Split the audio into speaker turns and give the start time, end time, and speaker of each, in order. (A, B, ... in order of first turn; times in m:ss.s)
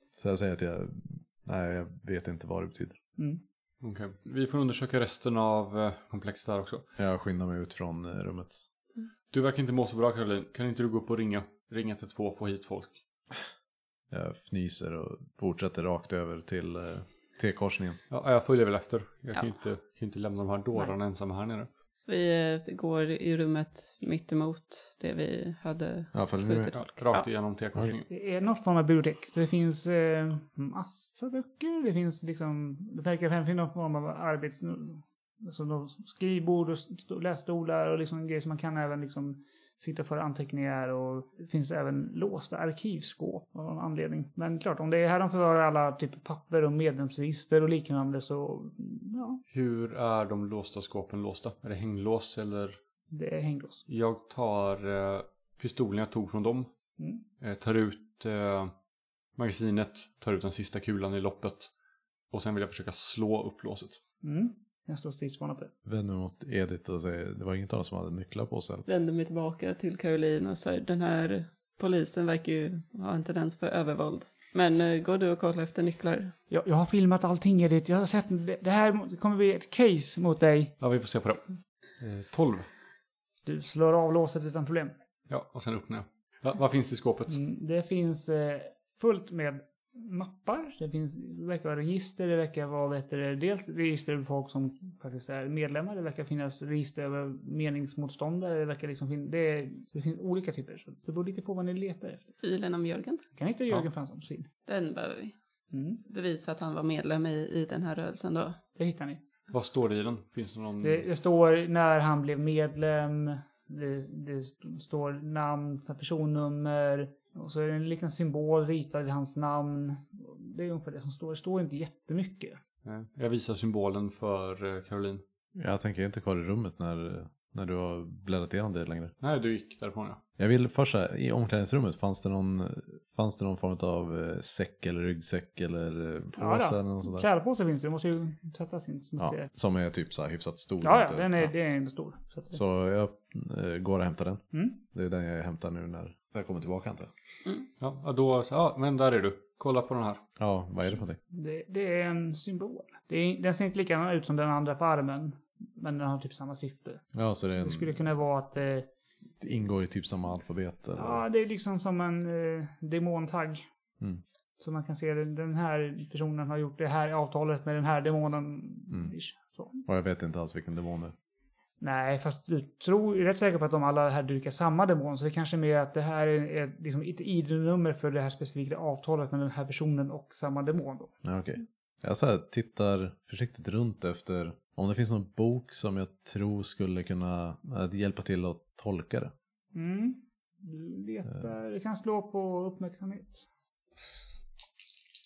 0:00.2-0:03.0 A
0:03.8-0:06.9 B
0:07.0-0:08.6 A
0:09.3-0:13.0 B
0:14.1-0:18.0 A
0:18.1-0:21.7 B
0:22.0-0:27.2 C
0:26.1-0:26.7 A
0:26.7-0:28.1 B
0:28.1-0:49.4 D
0:49.5-0:52.8 B
0:53.1-0:53.8 D
0:53.9-0:56.7 B
0:57.4-0:58.7 B
0:59.4-1:01.7 B
1:02.3-1:04.0 B
1:04.2-1:05.7 D
1:05.8-1:08.9 A
1:08.9-1:16.3 C
1:16.5-1:20.8 D
1:20.8-1:22.7 B
1:23.4-1:24.9 D
1:25.3-1:27.4 B
1:27.3-1:42.3 D
1:42.4-1:43.2 C
1:43.4-1:44.5 D
1:44.6-1:45.4 C
1:45.7-1:46.0 D
1:46.1-1:48.6 C
1:48.8-1:49.2 D
1:49.5-1:51.1 B
1:50.8-2:02.6 D
2:02.8-2:05.2 B
2:05.5-2:09.1 A
2:09.2-2:10.2 B
2:10.4-2:17.3 A
2:16.4-2:19.5 D
2:19.2-2:21.5 A
2:20.8-2:22.6 D
2:22.5-2:27.1 A
2:24.5-2:24.8 D
2:27.8-2:30.2 B
2:30.4-2:31.2 A
2:31.3-2:37.0 D
2:37.1-2:37.9 A
2:37.6-2:38.9 D
2:39.4-2:41.2 A
2:41.0-2:43.6 D
2:44.6-2:49.8 D
2:49.9-2:51.1 A
2:51.8-3:01.1 D
3:01.2-3:09.3 A
3:09.7-3:13.4 D